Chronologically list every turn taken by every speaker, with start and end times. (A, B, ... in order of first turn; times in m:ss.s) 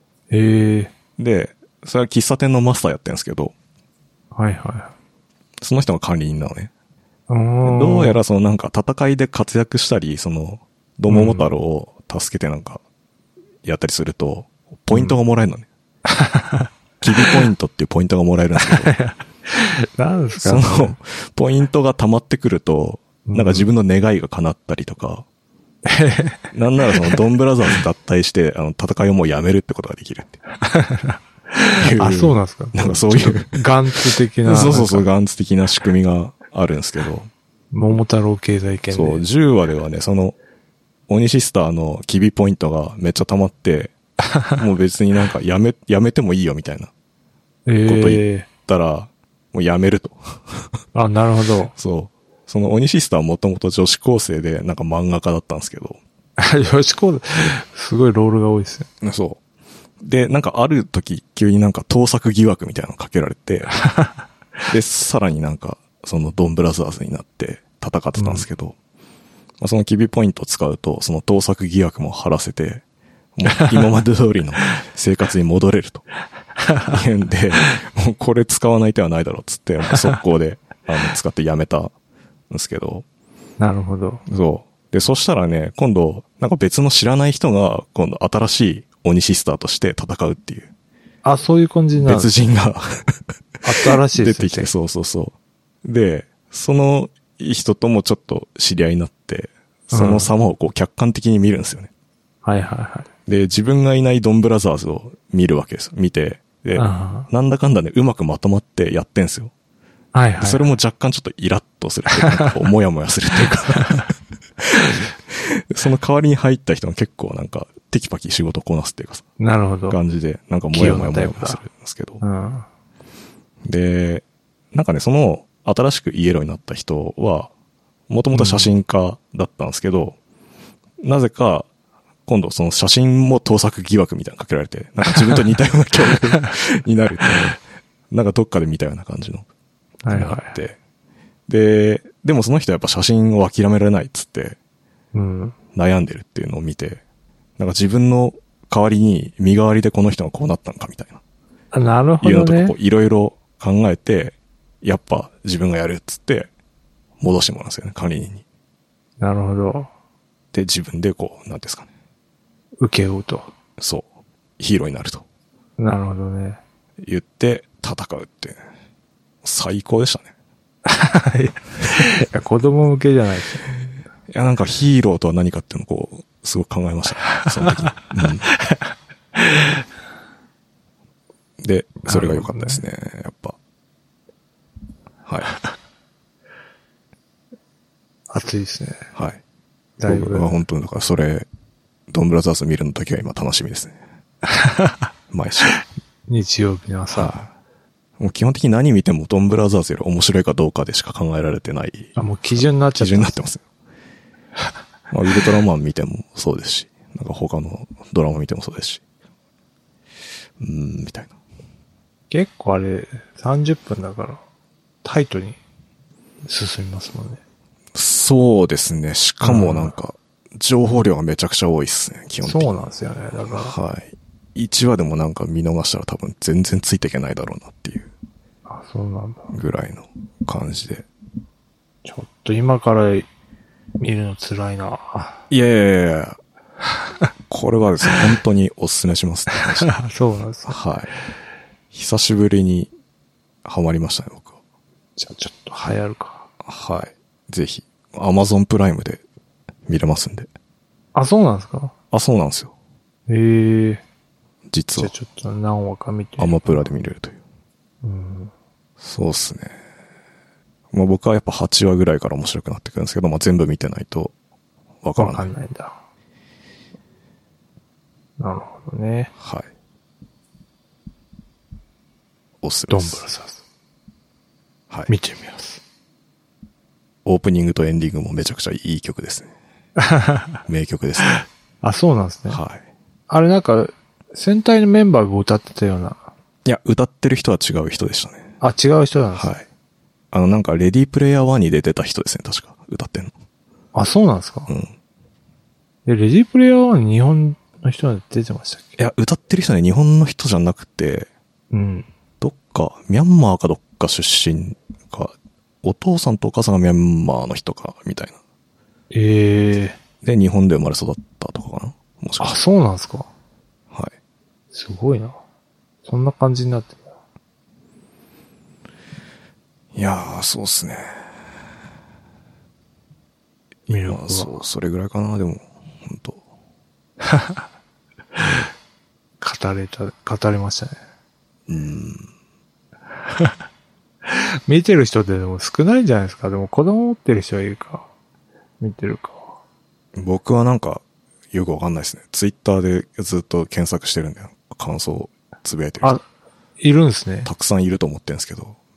0:00.3-0:00.9 A
0:01.2-0:03.5 B
0:04.3-0:04.9 A
0:05.6-0:06.7 B
0:07.3-0:08.2 A
0:07.6-0:12.8 B
0:11.1-0:11.5 A
0:13.6-0:15.7 B
0:14.9-0:15.2 A
0:16.1-0:16.7 A
0:17.0-0:18.9 B
0:18.6-0:21.0 A
0:20.4-0:25.2 B
0:23.3-0:23.7 A
0:25.9-0:27.2 A
0:26.5-0:30.4 B
0:30.6-0:35.1 A
0:31.8-0:33.6 B
0:34.4-0:37.3 B
0:37.7-0:39.2 A
0:38.9-0:40.4 B
0:41.1-0:43.9 B
0:44.6-0:46.9 B
0:47.7-0:48.5 A
0:47.9-0:50.7 B
0:51.0-0:51.7 A
0:51.7-0:56.0 B
0:56.4-0:58.9 A
0:59.0-0:59.4 B
1:00.0-1:03.8 B
1:04.7-1:08.8 B
1:08.2-1:08.5 A
1:09.6-1:12.8 B
1:13.4-1:16.0 B
1:13.5-1:13.8 A
1:16.6-1:17.0 A
1:16.9-1:21.9 B
1:19.9-1:20.2 A
1:22.5-1:23.0 B
1:23.6-1:24.2 A
1:24.3-1:30.7 B
1:31.2-1:32.3 A
1:32.0-1:33.2 B
1:33.6-1:34.7 A
1:33.8-1:41.9 B
1:39.9-1:40.3 A
1:42.4-1:43.1 A
1:43.3-1:49.5 B
1:46.8-1:47.3 A
1:50.1-1:50.7 A
1:50.4-1:59.3 B
1:52.1-1:52.6 A
1:53.8-1:54.1 A
1:59.4-2:00.0 A
1:59.9-2:02.2 B
2:00.7-2:01.6 A
2:02.2-2:02.7 A
2:03.6-2:07.5 B
2:08.1-2:10.2 B
2:08.3-2:08.7 A
2:11.0-2:11.7 B
2:12.3-2:17.6 B
2:18.1-2:19.5 B
2:20.0-2:20.6 A
2:20.1-2:20.8 B
2:21.5-2:24.6 B
2:25.1-2:25.6 A
2:25.7-2:27.0 B
2:27.6-2:31.2 B
2:31.7-2:32.8 A
2:32.2-2:36.5 B
2:37.2-2:38.4 B
2:39.2-2:39.9 A
2:40.5-2:41.9 B
2:42.8-2:43.5 A
2:43.8-2:44.1 B
2:44.6-2:45.2 B
2:45.8-2:46.6 A
2:47.0-2:48.6 B
2:49.4-2:50.3 B
2:50.9-2:53.7 A
2:54.3-2:58.5 B
2:57.4-2:57.9 A
2:58.4-2:59.8 A
3:01.6-3:03.6 B
3:02.1-3:02.8 A
3:05.3-3:05.5 B
3:08.3-3:09.1 A
3:09.2-3:09.4 B
3:10.0-3:10.6 A
3:10.0-3:11.5 B
3:12.1-3:14.0 B
3:14.5-3:15.0 A
3:15.3-3:15.7 B
3:16.3-3:17.3 A
3:17.2-3:17.5 B
3:18.2-3:23.6 B
3:22.2-3:23.5 A
3:25.1-3:29.0 B
3:30.6-3:31.3 B
3:32.3-3:34.4 A
3:35.0-3:35.6 A
3:36.4-3:37.4 A
3:37.9-3:42.8 B
3:39.4-3:39.9 A
3:42.4-3:43.8 A
3:43.5-3:48.1 B
3:48.7-3:49.5 A
3:49.5-3:51.1 B
3:52.0-3:53.3 A
3:54.0-3:55.4 A
3:55.5-3:56.4 B
3:57.5-3:59.9 B
3:59.6-4:00.8 A
4:00.7-4:01.1 B
4:01.9-4:02.9 B
4:03.6-4:04.6 B
4:05.2-4:06.5 A
4:06.6-4:09.2 B
4:09.9-4:10.5 B
4:11.2-4:11.9 A
4:12.1-4:12.7 B
4:13.3-4:14.0 A
4:14.7-4:15.1 B
4:15.0-4:16.9 A
4:16.4-4:17.4 B
4:18.0-4:18.5 A
4:19.0-4:19.8 B
4:20.9-4:24.3 B
4:25.0-4:25.5 B
4:25.2-4:26.0 A
4:28.4-4:29.3 A
4:29.4-4:29.7 B
4:32.6-4:33.2 B
4:32.9-4:33.6 A
4:35.1-4:35.8 A
4:37.2-4:39.5 B
4:40.0-4:40.6 A
4:40.7-4:41.3 B
4:41.3-4:42.6 A
4:42.5-4:42.8 B
4:43.3-4:46.3 A
4:46.6-4:48.5 B
4:48.6-4:49.6 A
4:49.4-4:49.6 B
4:50.3-4:53.3 B
4:53.9-4:54.7 A
4:54.7-4:54.9 B
4:56.1-4:59.0 A
4:59.0-5:01.3 B
5:01.7-5:02.1 A
5:02.4-5:08.4 B
5:09.1-5:10.0 A
5:10.2-5:12.6 B
5:12.4-5:13.3 A
5:14.7-5:15.4 A
5:16.0-5:17.0 A
5:20.0-5:21.2 B
5:23.9-5:24.6 A
5:24.0-5:26.4 B
5:29.4-5:31.0 A
5:31.7-5:32.3 B
5:33.3-5:33.6 A
5:34.2-5:38.1 A
5:38.8-5:39.6 A
5:40.2-5:46.1 B
5:46.8-5:47.5 A
5:47.4-5:48.8 B